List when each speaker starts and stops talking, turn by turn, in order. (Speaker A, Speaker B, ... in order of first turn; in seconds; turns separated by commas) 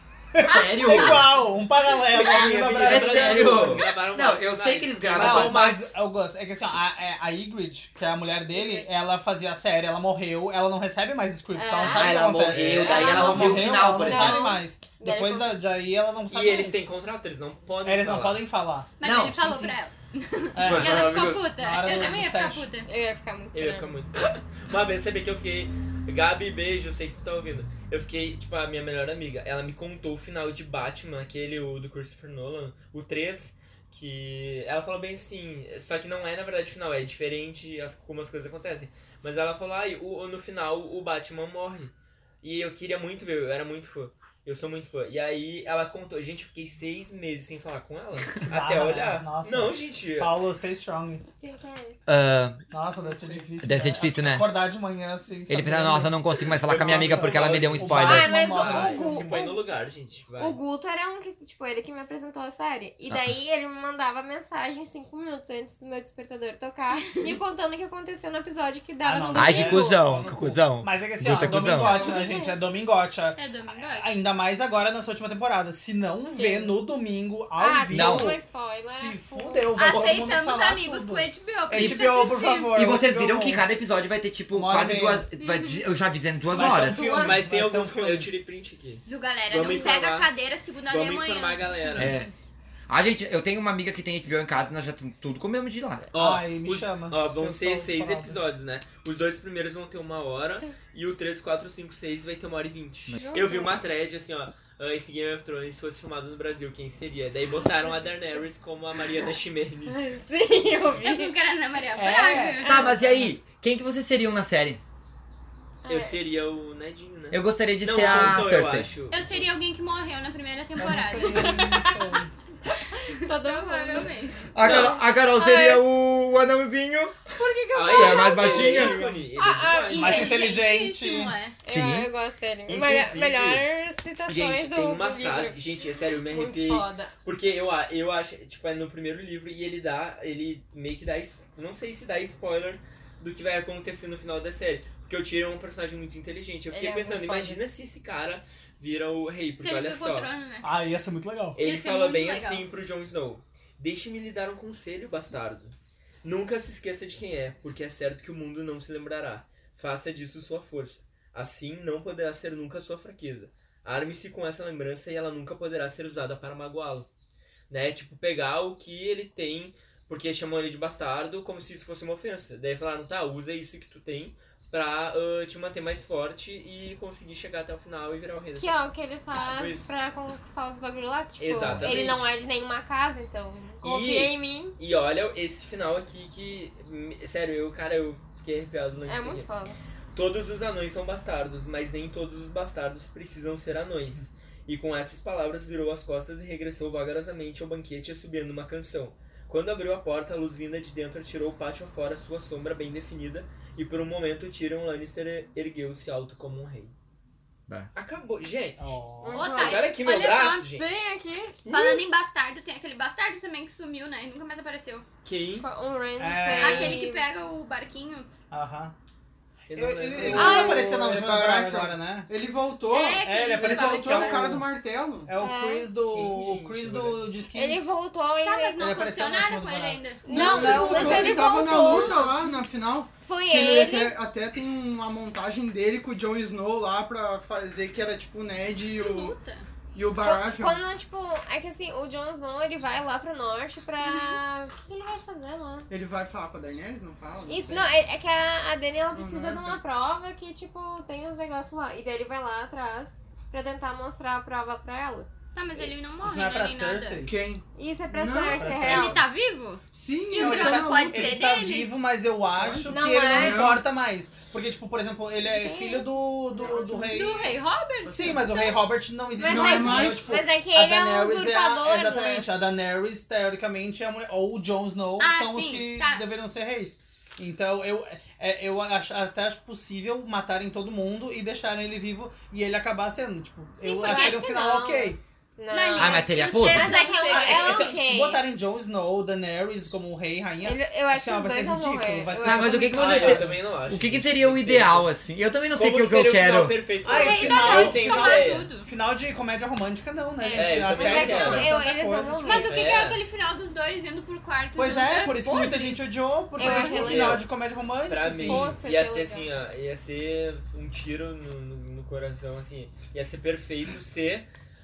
Speaker A: 0.3-3.8, Speaker B: 0.4-1.4, Speaker C: 0.7-1.2, Speaker D: 2.1-6.0, Speaker B: 2.8-5.8, Speaker A: 5.1-16.9, Speaker E: 11.5-15.6, Speaker B: 11.8-14.5, Speaker D: 12.5-13.2, Speaker D: 16.3-18.4, Speaker A: 17.8-18.9, Speaker C: 19.0-22.9, Speaker B: 19.0-19.7, Speaker A: 20.5-22.7, Speaker B: 20.6-21.4, Speaker E: 22.9-23.9, Speaker D: 23.5-50.4, Speaker A: 48.5-51.2, Speaker E: 51.4-52.0, Speaker B: 52.1-52.6, Speaker A: 52.7-59.5, Speaker F: 53.0-53.5, Speaker B: 53.6-54.5, Speaker B: 55.5-58.4, Speaker D: 56.6-60.6, Speaker E: 58.0-59.6, Speaker E: 60.4-70.2, Speaker B: 63.1-63.3, Speaker C: 67.0-67.3, Speaker A: 69.0-83.6, Speaker B: 69.3-72.0, Speaker E: 71.7-72.6, Speaker C: 73.4-74.2, Speaker E: 76.3-76.8, Speaker E: 77.6-79.7, Speaker B: 77.9-78.3, Speaker C: 79.7-82.8, Speaker B: 81.7-87.2, Speaker A: 84.5-85.2, Speaker C: 85.4-85.9, Speaker A: 86.5-88.3, Speaker E: 86.6-87.4, Speaker D: 86.9-90.3, Speaker C: 89.1-92.2, Speaker D: 90.9-92.2, Speaker B: 92.0-92.3, Speaker B: 92.9-96.1, Speaker D: 96.1-110.1, Speaker A: 96.1-98.4, Speaker E: 103.2-103.7, Speaker E: 109.9-111.4, Speaker C: 111.0-113.0, Speaker A: 111.9-112.8, Speaker E: 112.6-113.0, Speaker B: 112.6-114.8, Speaker E: 115.8-116.2, Speaker D: 115.9-119.5, Speaker B: 117.3-118.9, Speaker A: 118.0-118.4, Speaker C: 119.1-121.9, Speaker A: 120.8-122.3, Speaker E: 121.2-121.9, Speaker E: 122.9-125.8, Speaker C: 123.1-124.5, Speaker B: 124.5-127.2, Speaker D: 124.6-125.0, Speaker E: 127.3-130.4, Speaker D: 127.7-130.3, Speaker B: 127.8-129.0, Speaker A: 129.0-129.3, Speaker C: 129.9-131.6, Speaker A: 129.9-131.3, Speaker E: 131.6-137.1, Speaker B: 131.7-132.1, Speaker D: 132.7-133.7, Speaker D: 134.3-150.3, Speaker E: 146.7-147.6, Speaker C: 149.6-150.7, Speaker A: 150.6-151.6, Speaker D: 151.6-167.1, Speaker C: 151.6-152.6, Speaker D: 167.7-178.7, Speaker E: 178.6-184.8, Speaker D: 179.3-179.9, Speaker D: 181.4-182.3, Speaker B: 181.6-182.0, Speaker D: 183.8-189.5, Speaker E: 189.1-189.8, Speaker D: 190.1-206.9, Speaker D: 207.9-208.8, Speaker A: 208.8-209.5, Speaker E: 209.2-209.9, Speaker C: 209.3-210.8, Speaker D: 209.5-210.9, Speaker E: 210.7-211.6, Speaker C: 211.7-215.0, Speaker D: 215.2-215.7, Speaker E: 215.6-217.3, Speaker A: 216.2-217.0, Speaker C: 216.5-218.3, Speaker A: 218.5-218.9, Speaker D: 219.7-220.8, Speaker A: 219.7-222.3, Speaker F: 220.2-225.3, Speaker E: 220.3-220.9, Speaker C: 222.9-224.5, Speaker A: 223.2-224.7, Speaker A: 225.2-228.0, Speaker E: 225.4-225.9, Speaker D: 226.1-227.3, Speaker E: 227.5-228.9, Speaker C: 228.4-230.6, Speaker A: 228.8-231.5, Speaker E: 230.2-232.3, Speaker F: 230.3-239.4, Speaker C: 231.6-232.2, Speaker E: 233.2-234.2, Speaker C: 238.9-239.7, Speaker F: 239.9-240.8, Speaker E: 240.2-245.9, Speaker C: 244.0-244.4, Speaker F: 245.9-247.9, Speaker E: 247.5-255.3, Speaker F: 249.1-249.8, Speaker C: 255.5-257.2, Speaker A: 256.2-257.3, Speaker F: 257.2-258.9, Speaker E: 257.8-259.2, Speaker A: 258.5-259.2, Speaker C: 258.9-261.9, Speaker F: 259.9-261.4, Speaker A: 260.3-267.5, Speaker F: 262.6-263.8, Speaker E: 262.9-263.7, Speaker E: 265.5-266.1, Speaker F: 266.6-266.9, Speaker C: 266.7-268.8, Speaker F: 268.1-268.4, Speaker A: 268.1-285.2, Speaker E: 269.4-272.5, Speaker F: 269.4-270.4, Speaker C: 275.2-276.2, Speaker E: 283.8-288.4, Speaker C: 284.0-284.6, Speaker C: 285.7-288.0, Speaker B: 286.0-287.0, Speaker A: 287.2-293.6, Speaker E: 290.6-293.4, Speaker B: 292.4-296.8, Speaker D: 293.0-295.1, Speaker D: 295.7-298.7, Speaker C: 297.1-298.9, Speaker A: 297.1-302.7, Speaker E: 297.1-297.9, Speaker E: 300.4-302.8, Speaker D: 300.5-301.7, Speaker C: 301.4-301.7, Speaker C: 302.4-306.0, Speaker D: 302.7-303.2, Speaker A: 304.8-308.8, Speaker C: 306.6-307.2, Speaker E: 306.6-307.4, Speaker D: 306.9-307.5, Speaker D: 308.1-314.4, Speaker E: 308.4-309.5